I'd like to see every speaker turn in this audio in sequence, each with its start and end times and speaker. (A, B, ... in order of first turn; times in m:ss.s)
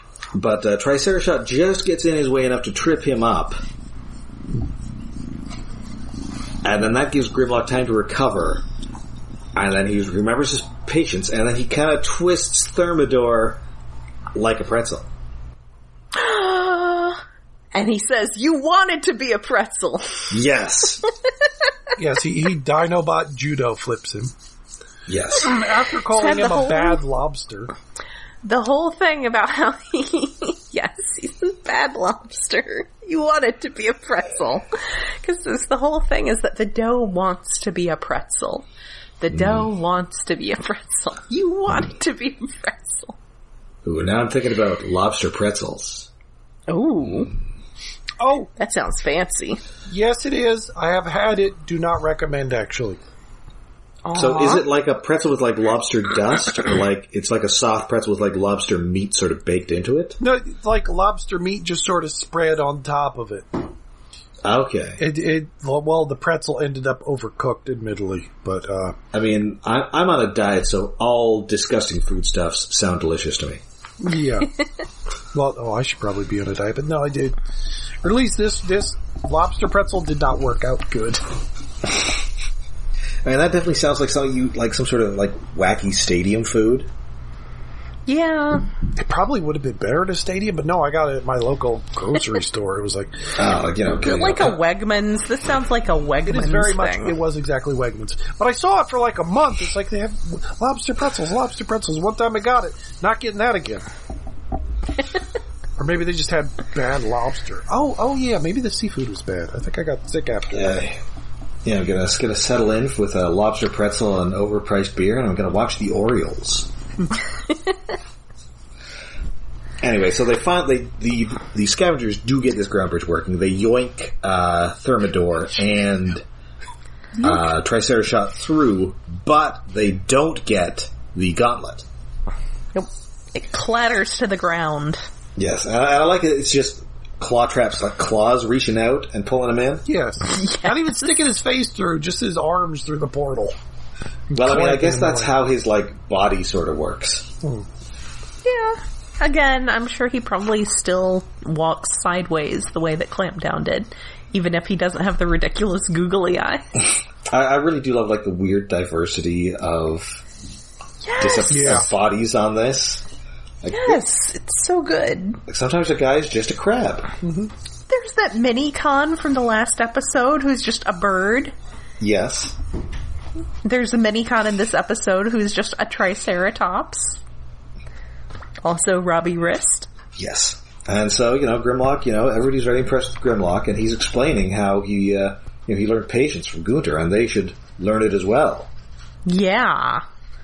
0:00.3-0:03.6 A
0:06.6-0:08.6 A
0:09.6-0:13.6 A
0:14.3-0:15.1 A
0:16.1-0:17.2 B
0:17.7-0:20.4 B
0:20.3-0:21.0 A
0:22.0-0:24.3 C
0:25.1-0:25.5 A
0:25.4-0:27.7 C
0:26.1-0:27.0 B
0:28.4-0:38.6 B
0:39.2-0:43.2 B
0:39.3-0:39.7 A
0:43.8-0:46.1 A
0:46.7-0:47.3 B
0:48.2-0:48.5 C
0:48.6-0:49.6 B
0:49.9-0:53.0 C
0:54.0-0:54.6 B
0:54.1-1:00.2 A
1:00.2-1:03.7 C
1:04.4-1:05.0 A
1:05.0-1:09.0 C
1:09.1-1:13.6 A
1:14.0-1:14.5 C
1:15.3-1:17.4 C
1:18.0-1:21.2 C
1:23.2-1:26.9 A
1:28.1-1:28.7 B
1:28.9-1:33.3 C
1:33.4-1:34.6 A
1:34.0-1:37.2 B
1:36.2-1:43.9 C
1:45.8-1:50.7 C
1:50.5-1:51.0 A
1:51.6-1:56.7 A
1:59.8-2:06.2 A
2:07.2-2:11.8 A
2:12.7-2:15.0 B
2:15.4-2:19.8 A
2:19.8-2:23.6 C
2:20.3-2:20.9 B
2:24.3-2:25.3 C
2:24.3-2:27.3 A
2:27.4-2:27.7 C
2:28.4-2:36.6 B
2:37.2-2:40.2 A
2:41.0-2:41.8 B
2:41.2-2:43.0 A
2:41.5-2:41.9 C
2:43.6-2:44.0 A
2:43.7-2:45.4 B
2:45.5-2:47.1 A
2:47.2-2:47.5 C
2:47.9-2:51.5 B
2:52.0-2:52.6 A
2:53.6-2:57.2 B
2:58.6-2:59.9 B
3:00.2-3:08.7 A
3:09.2-3:10.0 B